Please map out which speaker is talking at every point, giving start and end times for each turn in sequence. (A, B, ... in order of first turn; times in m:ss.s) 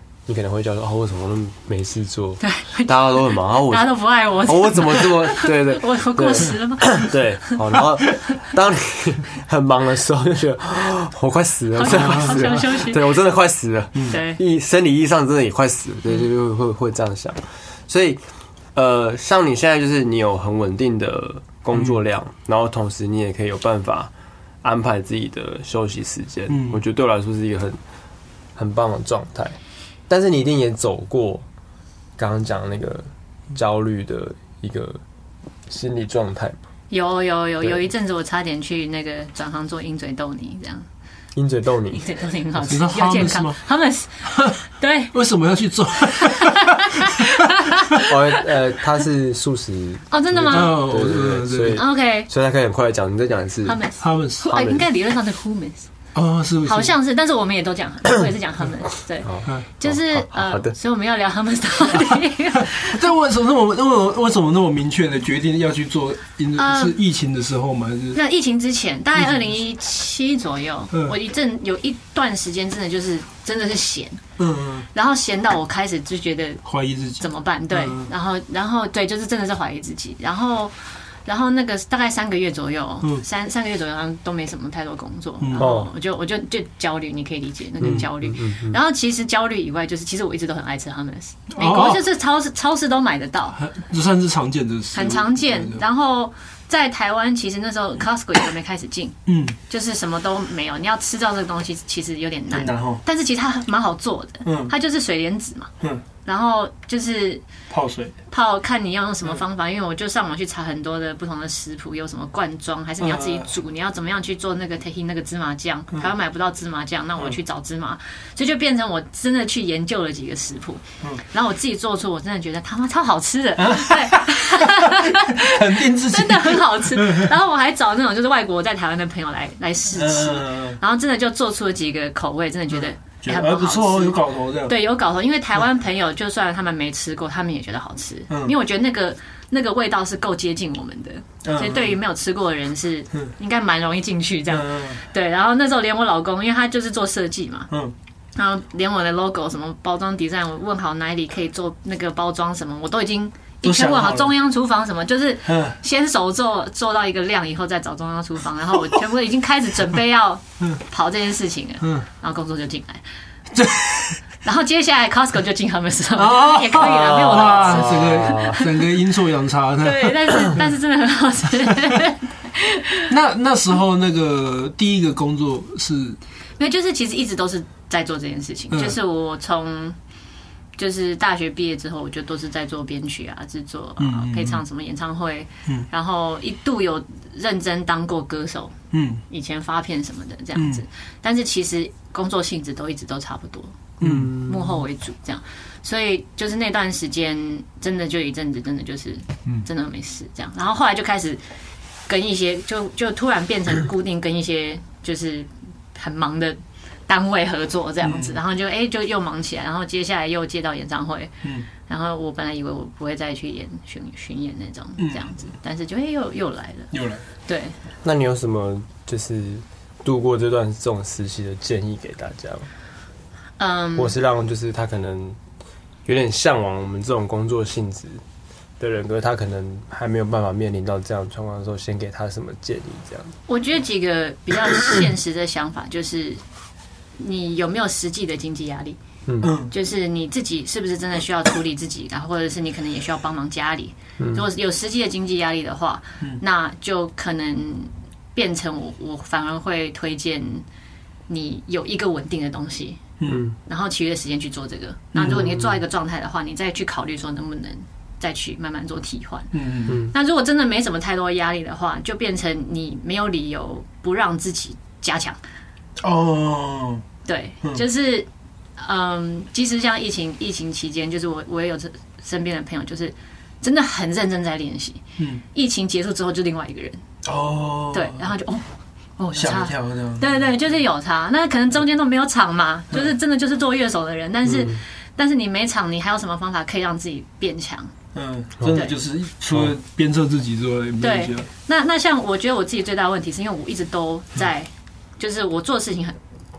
0:00.3-0:18.2 A
0:02.4-0:07.6 B
0:11.7-0:13.1 B
0:11.8-0:12.7 C
0:14.1-0:14.4 B
0:18.8-0:24.1 A
0:24.6-0:27.8 A
0:26.5-0:26.8 C
0:28.6-0:29.6 A
0:30.1-0:31.5 A
0:32.2-0:35.0 A
0:35.7-0:36.6 A
0:36.9-0:40.9 B
0:41.4-0:42.0 A
0:41.9-0:44.2 B
0:42.7-0:43.6 C
0:44.3-0:44.6 C
0:44.8-0:45.1 B
0:45.1-0:47.2 C
0:46.4-0:48.1 B
0:48.0-0:53.8 A
0:50.1-0:50.8 B
0:50.5-0:51.8 C
0:51.7-0:52.3 B
0:53.6-0:55.9 B
0:54.0-0:54.6 C
0:54.5-0:54.8 A
0:56.2-0:56.9 C
0:56.6-1:03.0 B
0:59.2-1:00.8 A
1:02.6-1:08.2 C
1:06.6-1:07.0 B
1:08.1-1:14.2 B
1:14.4-1:14.9 C
1:14.9-1:16.6 B
1:16.6-1:18.1 C
1:17.2-1:33.6 B
1:25.4-1:25.7 C
1:25.6-1:25.9 A
1:27.8-1:28.8 A
1:31.6-1:32.0 C
1:33.6-1:35.8 C
1:34.9-1:39.2 B
1:39.3-1:39.6 C
1:39.7-1:45.7 B
1:42.5-1:43.0 C
1:44.4-1:44.7 C
1:46.2-1:47.4 B
1:47.7-1:48.2 C
1:48.3-2:27.7 B
1:53.0-1:53.5 C
2:03.6-2:07.3 C
2:10.0-2:10.8 C
2:12.7-2:14.8 C
2:21.4-2:22.0 C
2:24.5-2:25.0 C
2:28.4-2:43.0 B
2:33.6-2:34.3 C
2:35.5-2:35.8 C
2:43.5-2:44.2 C
2:44.4-2:48.8 B
2:46.2-2:50.5 C
2:46.9-2:48.6 A
2:49.8-2:53.1 B
2:53.1-2:56.2 C
2:56.6-3:00.0 B
2:58.7-2:59.0 C
3:00.8-3:08.8 B
3:04.0-3:04.6 C
3:08.9-3:09.2 C
3:09.3-3:21.4 B
3:10.6-3:10.8 C
3:14.0-3:14.4 C
3:14.0-3:14.6 A
3:22.1-3:36.9 B
3:28.0-3:28.4 C
3:35.0-3:35.2 C
3:36.9-3:37.2 C
3:37.5-3:37.8 B
3:38.0-3:42.7 A
3:43.6-3:44.1 B
3:44.0-3:45.4 A
3:46.1-3:48.2 A
3:48.8-3:53.3 A
3:53.5-3:56.4 B
3:57.2-3:59.0 B
3:59.3-3:59.5 A
3:59.4-3:59.7 C
3:59.7-4:10.7 B
4:04.2-4:04.4 A
4:11.3-4:13.0 B
4:13.2-4:13.5 C
4:13.3-4:13.5 A
4:13.7-4:25.4 B
4:15.3-4:15.6 A
4:19.5-4:20.0 C
4:19.9-4:20.1 A
4:26.0-4:27.0 C
4:27.2-4:28.3 B
4:28.8-4:37.0 B
4:35.2-4:35.4 C
4:37.2-4:38.3 C
4:37.9-4:38.7 B
4:39.2-4:47.9 B
4:39.4-4:40.5 C
4:44.5-4:44.8 A
4:48.1-4:51.5 C
4:51.0-4:56.2 B